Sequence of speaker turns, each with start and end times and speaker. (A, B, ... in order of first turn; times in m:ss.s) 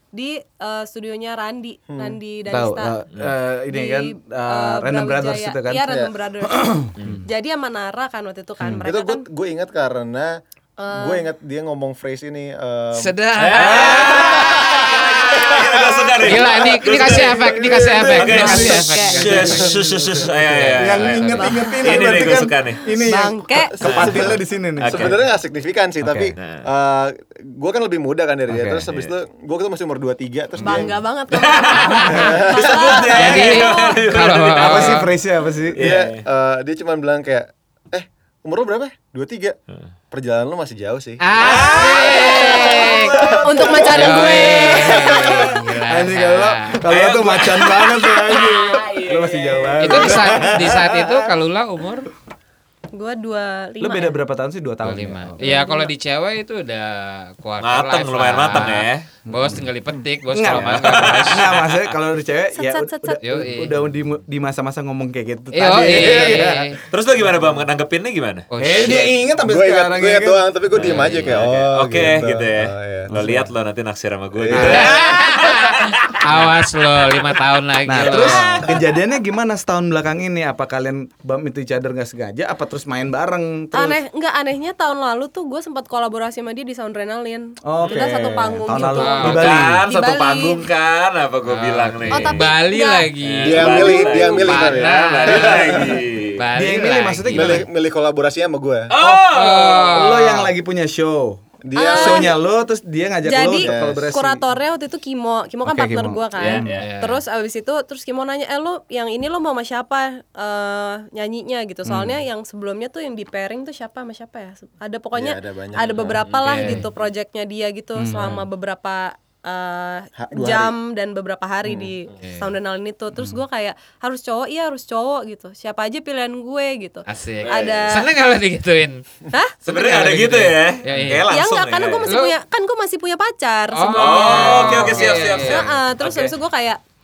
0:00.1-0:03.0 A
0:01.9-0:02.2 B
0:02.5-0:05.9 C
0:03.7-0:09.3 A
0:06.4-0:07.3 C
0:07.0-0:07.2 D
0:08.8-0:13.2 B
0:10.8-0:11.2 A
0:12.9-0:15.0 E
0:13.4-0:22.9 D
0:13.6-0:14.3 C
0:14.0-0:14.7 B
0:15.4-0:16.0 B
0:16.2-0:19.8 E
0:16.9-0:25.2 C
0:18.2-0:19.7 A
0:20.5-0:21.2 E
0:21.3-0:22.2 A
0:22.9-0:23.8 A
0:23.6-0:30.9 B
0:23.8-0:25.2 D
0:26.0-0:26.3 C
0:26.4-0:26.6 D
0:28.5-0:28.8 C
0:28.9-0:29.1 D
0:30.6-0:34.0 A
0:31.3-0:35.0 D
0:32.1-0:33.4 C
0:32.2-0:33.0 B
0:33.1-0:35.1 E
0:34.6-0:36.0 C
0:35.7-0:36.2 D
0:35.8-0:39.6 B
0:40.1-0:41.2 B
0:41.2-0:43.3 E
0:41.4-0:42.4 D
0:41.4-0:50.9 C
0:42.0-0:42.8 A
0:43.4-0:45.0 A
0:43.6-0:44.1 B
0:43.9-0:46.9 E
0:45.1-0:45.5 B
0:46.9-0:50.4 D
0:49.8-0:52.1 E
0:52.9-0:54.2 A
0:53.8-0:55.4 C
0:54.8-1:01.5 E
0:55.4-0:55.9 A
0:57.6-0:59.1 D
0:59.3-0:59.6 C
1:00.3-1:06.7 C
1:00.5-1:01.9 D
1:02.6-1:03.2 A
1:03.2-1:03.8 E
1:05.5-1:06.8 E
1:05.9-1:06.4 D
1:06.9-1:09.1 D
1:08.5-1:09.1 E
1:08.6-1:11.4 C
1:09.4-1:13.2 B
1:10.8-1:16.5 D
1:10.8-1:11.4 E
1:13.1-1:13.5 C
1:14.4-1:15.0 B
1:14.5-1:18.8 E
1:17.9-1:24.0 C
1:18.1-1:18.9 D
1:23.7-1:30.6 A
1:27.6-1:29.9 C
1:28.7-1:29.6 E
1:29.2-1:32.5 D
1:31.5-1:37.6 E
1:32.1-1:34.4 A
1:33.2-1:36.4 D
1:33.4-1:36.0 B
1:36.6-1:37.7 C
1:37.3-1:38.9 B
1:38.9-1:40.0 D
1:39.0-1:41.4 C
1:39.3-1:40.5 E
1:41.6-1:42.4 B
1:41.8-1:42.3 A
1:41.9-1:44.4 C
1:43.2-2:08.1 A
1:43.6-1:44.1 B
1:45.6-1:46.7 C
1:46.4-1:46.9 D
1:46.7-1:47.2 E
1:51.9-1:52.2 C
1:55.2-1:56.2 B
1:56.2-1:56.7 D
1:56.4-1:56.9 E
1:58.0-1:58.5 C
2:00.2-2:00.8 B
2:01.6-2:01.9 B
2:02.2-2:02.5 E
2:07.1-2:09.0 E
2:07.4-2:07.9 D
2:09.3-2:10.4 A
2:09.6-2:12.1 D
2:09.9-2:11.3 E
2:11.3-2:16.8 A
2:12.1-2:12.4 E
2:13.7-2:15.7 E
2:13.9-2:16.3 D